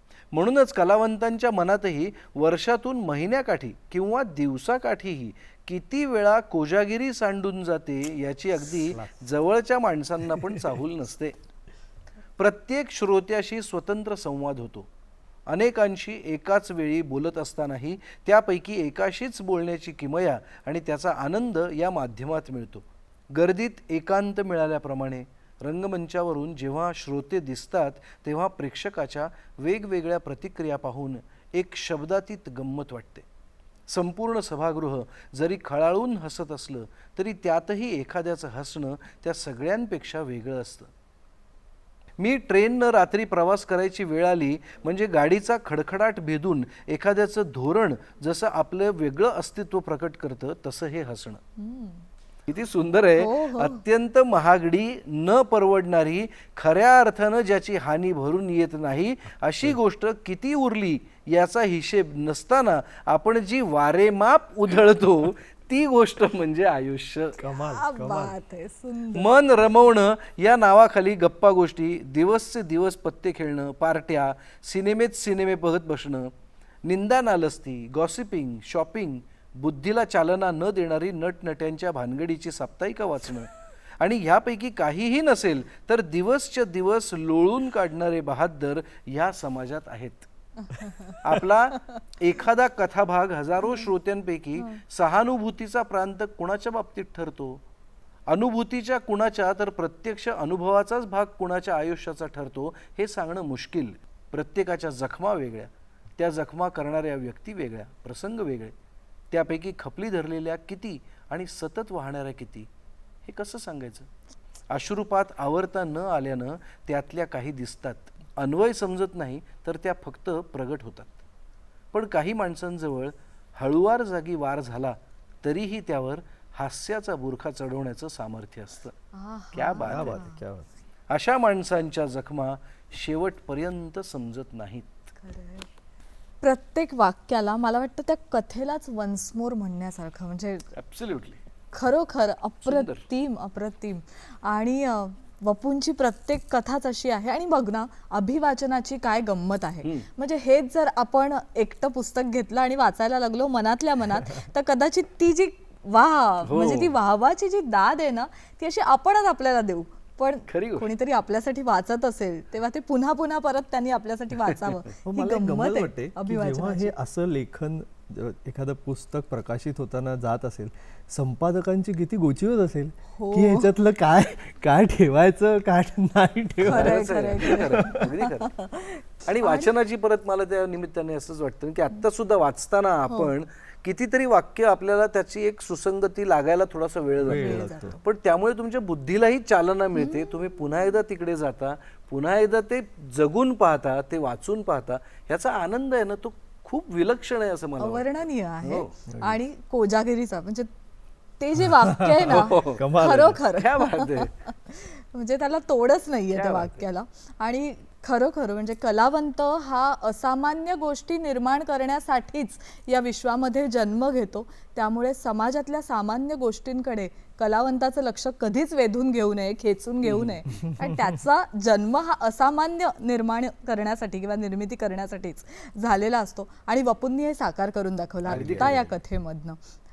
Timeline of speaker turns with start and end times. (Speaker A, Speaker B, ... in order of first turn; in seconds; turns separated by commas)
Speaker A: 0.3-11.4, Speaker A: 12.4-14.9, Speaker A: 15.5-33.3, Speaker A: 33.9-40.9, Speaker A: 42.2-51.4, Speaker B: 51.6-52.0, Speaker A: 52.5-67.4, Speaker B: 53.2-53.8, Speaker C: 67.4-68.3, Speaker B: 67.7-69.3, Speaker A: 69.1-76.3, Speaker A: 76.8-90.3, Speaker B: 90.7-91.2, Speaker A: 91.2-97.6, Speaker A: 98.3-108.7, Speaker A: 109.3-112.7, Speaker A: 113.2-114.1, Speaker A: 114.7-121.2, Speaker A: 121.9-128.9, Speaker B: 129.1-130.4, Speaker A: 129.5-130.2, Speaker C: 129.8-130.7, Speaker A: 131.1-134.9, Speaker B: 135.2-135.7, Speaker B: 136.4-140.7, Speaker A: 140.8-141.4, Speaker B: 141.7-166.9, Speaker A: 142.7-143.0, Speaker A: 149.8-150.1, Speaker A: 156.4-156.9, Speaker A: 160.5-160.9, Speaker C: 165.1-178.0, Speaker B: 173.1-173.7, Speaker B: 176.6-179.7, Speaker A: 176.7-178.5, Speaker A: 179.3-198.1, Speaker C: 187.2-188.0, Speaker B: 187.3-187.9, Speaker B: 190.0-190.3, Speaker B: 197.8-200.7, Speaker A: 198.6-198.9, Speaker C: 199.1-199.4, Speaker B: 201.4-229.6, Speaker C: 201.8-203.4, Speaker A: 202.3-202.8, Speaker A: 203.6-204.3, Speaker A: 206.3-206.7, Speaker A: 220.1-220.3, Speaker A: 228.3-228.8, Speaker C: 228.3-229.0